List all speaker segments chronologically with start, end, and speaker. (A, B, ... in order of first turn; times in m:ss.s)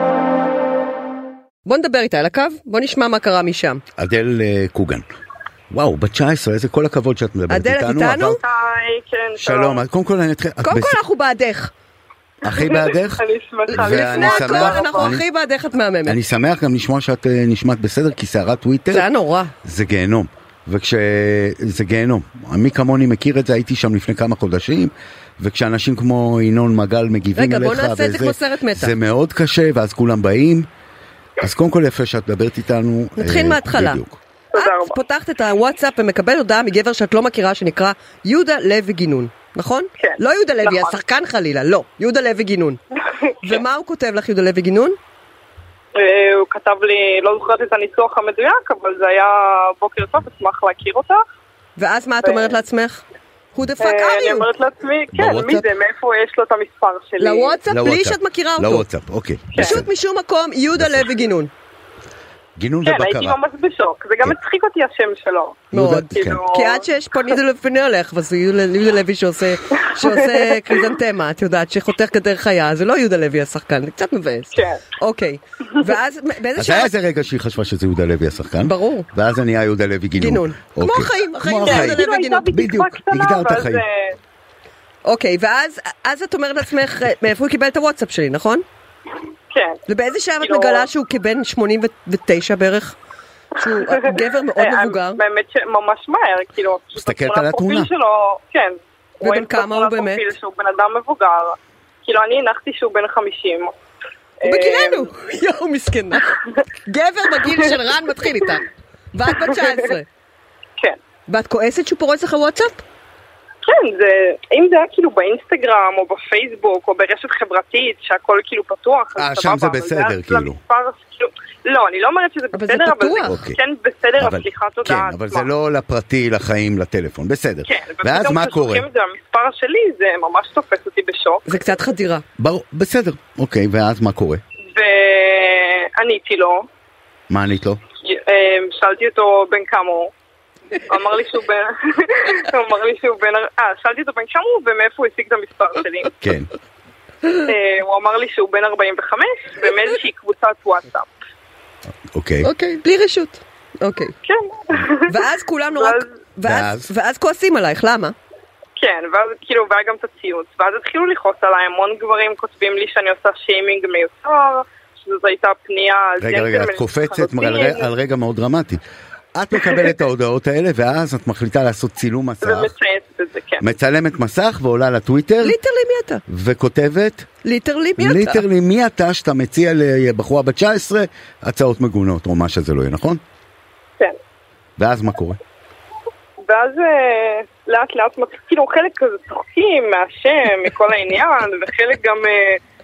0:01.6-0:03.8 A
0:04.0-0:05.0 B
0:05.7-0:08.4 B
0:07.5-0:08.4 A
0:08.4-0:09.8 C
0:09.4-0:11.0 B
0:10.6-0:11.7 A
0:12.4-0:15.2 B
0:12.4-0:15.2 C
0:13.7-0:16.2 A
0:16.0-0:19.1 B
0:18.9-0:19.5 A
0:19.6-0:30.6 B
0:27.3-0:29.0 A
0:31.4-0:34.2 B
0:33.2-0:34.0 A
0:34.5-0:35.0 C
0:34.6-0:42.8 A
0:40.0-0:40.9 C
0:43.4-0:45.0 A
0:46.0-0:51.2 C
0:51.8-0:53.0 A
0:52.2-0:52.6 C
0:53.5-0:54.5 A
0:53.8-0:57.6 C
0:55.1-0:55.6 B
0:57.2-0:58.8 A
0:57.7-0:59.9 B
0:59.5-0:59.8 C
0:59.6-1:01.5 A
1:00.7-1:01.0 B
1:02.6-1:03.4 B
1:02.8-1:06.8 C
1:05.7-1:16.9 A
1:05.7-1:06.4 B
1:10.0-1:10.5 C
1:14.5-1:14.8 C
1:16.6-1:23.8 B
1:18.6-1:19.1 A
1:20.2-1:22.5 A
1:21.6-1:24.1 C
1:25.0-1:28.6 A
1:29.5-1:29.8 C
1:29.9-1:33.0 A
1:30.4-1:30.9 C
1:33.5-1:35.2 A
1:33.9-1:43.7 C
1:37.0-1:37.9 B
1:39.2-1:40.3 A
1:44.4-1:45.1 C
1:44.4-1:50.0 A
1:51.3-1:52.8 A
1:53.6-2:05.5 C
1:59.2-2:00.6 B
2:02.5-2:03.4 A
2:03.2-2:03.6 B
2:04.2-2:08.9 B
2:07.6-2:11.4 C
2:11.4-2:12.2 A
2:12.4-2:14.4 B
2:14.7-2:16.6 C
2:17.3-2:17.8 B
2:18.0-2:20.1 C
2:20.9-2:26.2 C
2:26.2-2:26.5 B
2:27.3-2:31.1 C
2:32.1-2:32.5 B
2:32.4-2:34.1 A
2:34.2-2:35.2 C
2:35.1-2:38.1 A
2:35.7-2:36.1 C
2:36.4-2:36.9 B
2:38.8-2:47.9 C
2:46.2-2:48.8 B
2:49.3-2:52.7 B
2:52.4-2:53.6 C
2:53.6-2:55.6 B
2:55.4-2:56.2 A
2:56.3-2:57.3 B
2:57.4-2:58.4 A
2:58.0-3:03.2 B
3:04.8-3:05.4 B
3:06.4-3:12.6 C